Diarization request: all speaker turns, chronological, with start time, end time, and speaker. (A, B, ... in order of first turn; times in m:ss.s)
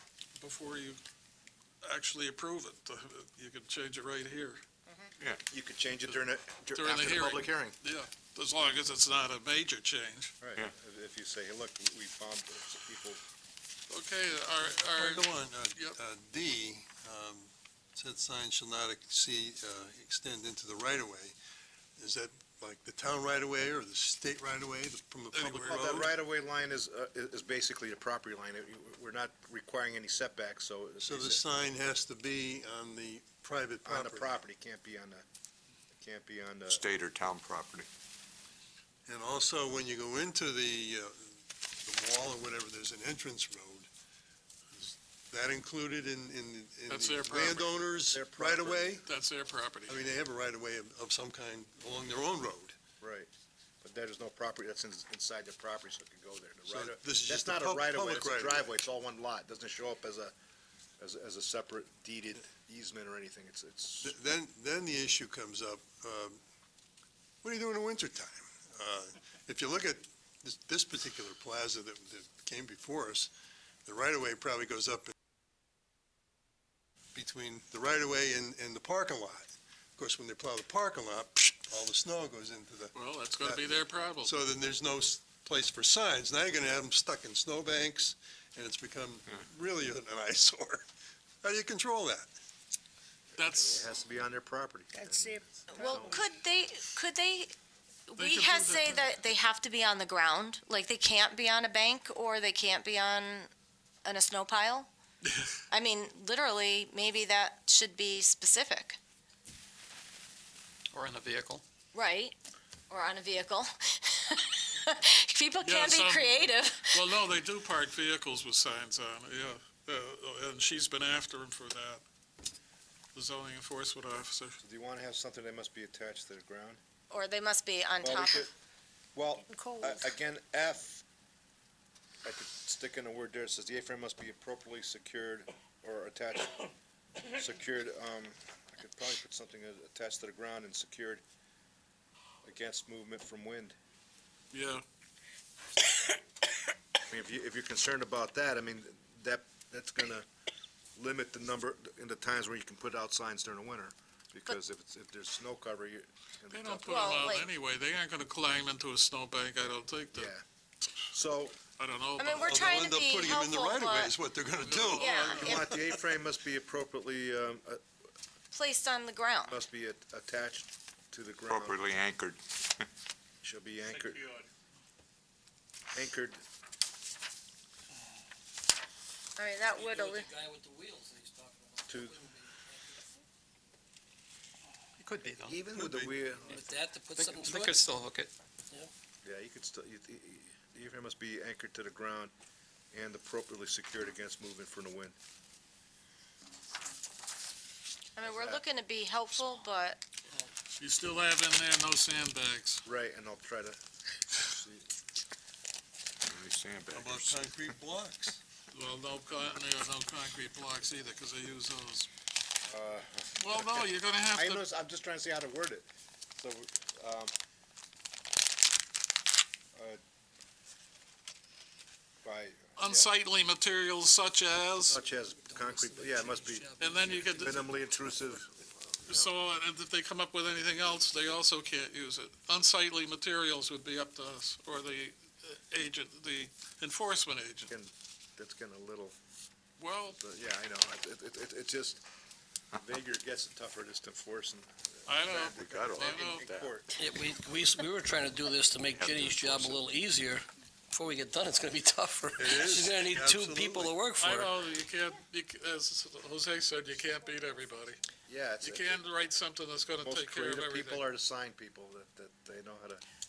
0:00.4-0:01.0 A
0:01.8-0:04.6 A
0:05.5-0:07.8 B
0:06.7-0:10.3 A
0:10.4-0:13.2 B
0:13.9-0:16.0 A
0:14.7-0:21.4 C
0:22.0-0:26.1 C
0:25.3-0:26.1 A
0:25.6-0:31.8 B
0:31.0-0:34.4 C
0:33.8-0:35.3 B
0:35.9-0:36.8 B
0:36.7-0:37.9 D
0:39.1-0:43.9 C
0:45.3-0:49.0 C
0:46.9-0:47.8 A
0:48.1-0:49.0 B
0:49.0-0:50.1 A
0:49.9-0:52.8 C
0:53.0-0:53.3 B
0:53.8-1:00.3 B
0:56.7-0:58.7 C
1:01.0-1:04.2 B
1:04.0-1:06.4 C
1:07.4-1:13.3 C
1:13.9-1:15.1 C
1:17.2-1:30.9 C
1:23.0-1:24.3 A
1:31.4-1:32.3 C
1:33.4-1:33.9 A
1:33.5-1:36.2 B
1:35.7-1:37.5 E
1:38.1-1:43.5 E
1:38.2-1:39.2 A
1:44.0-1:44.9 E
1:45.7-1:49.0 E
1:50.9-1:51.6 F
1:51.9-1:52.4 E
1:52.9-1:57.1 E
1:55.6-2:02.0 A
2:03.2-2:04.6 A
2:04.6-2:06.8 B
2:07.1-2:08.5 E
2:08.0-2:08.5 B
2:09.1-2:11.0 B
2:12.2-2:16.7 B
2:17.3-2:21.2 B
2:22.4-2:23.8 B
2:24.5-2:24.8 A
2:27.1-2:30.3 B
2:31.0-2:37.4 B
2:36.5-2:40.3 A
2:36.9-2:37.5 E
2:40.1-2:40.4 B
2:41.1-2:41.6 B
2:41.8-2:42.5 A
2:42.2-2:44.1 E
2:42.4-2:45.9 C
2:44.6-2:45.6 A
2:45.0-2:45.6 E
2:45.3-2:47.8 B
2:48.5-2:49.6 E
2:49.5-2:51.8 B
2:51.5-2:52.9 D
2:53.4-2:54.3 B
2:55.9-2:56.4 B
2:59.4-3:00.2 E
2:59.5-3:03.2 G
3:01.9-3:02.2 B
3:05.0-3:06.1 F
3:05.4-3:07.4 B
3:06.5-3:07.8 G
3:07.4-3:08.3 F
3:09.2-3:12.3 B
3:12.9-3:15.2 B
3:18.2-3:20.0 E
3:18.2-3:18.6 B
3:20.8-3:22.8 A
3:22.8-3:23.8 B
3:24.4-3:24.9 B
3:26.2-3:27.6 D
3:26.9-3:28.4 C
3:28.7-3:32.1 A
3:32.7-3:37.3 B
3:33.4-3:34.6 A
3:39.8-3:40.0 B
3:42.2-3:43.1 B
3:42.8-3:45.0 A
3:44.9-3:49.3 B
3:45.4-3:47.6 G
3:46.8-3:47.6 A
3:49.1-3:57.7 A
3:57.7-3:59.2 B
3:59.8-4:00.2 A
4:00.1-4:02.0 B
4:02.8-4:07.0 B
4:05.1-4:06.5 A
4:05.6-4:06.7 D
4:07.0-4:14.5 G
4:08.9-4:09.9 D
4:12.4-4:14.0 C
4:14.2-4:18.0 A
4:18.3-4:19.1 B
4:18.6-4:21.0 A
4:20.0-4:23.0 B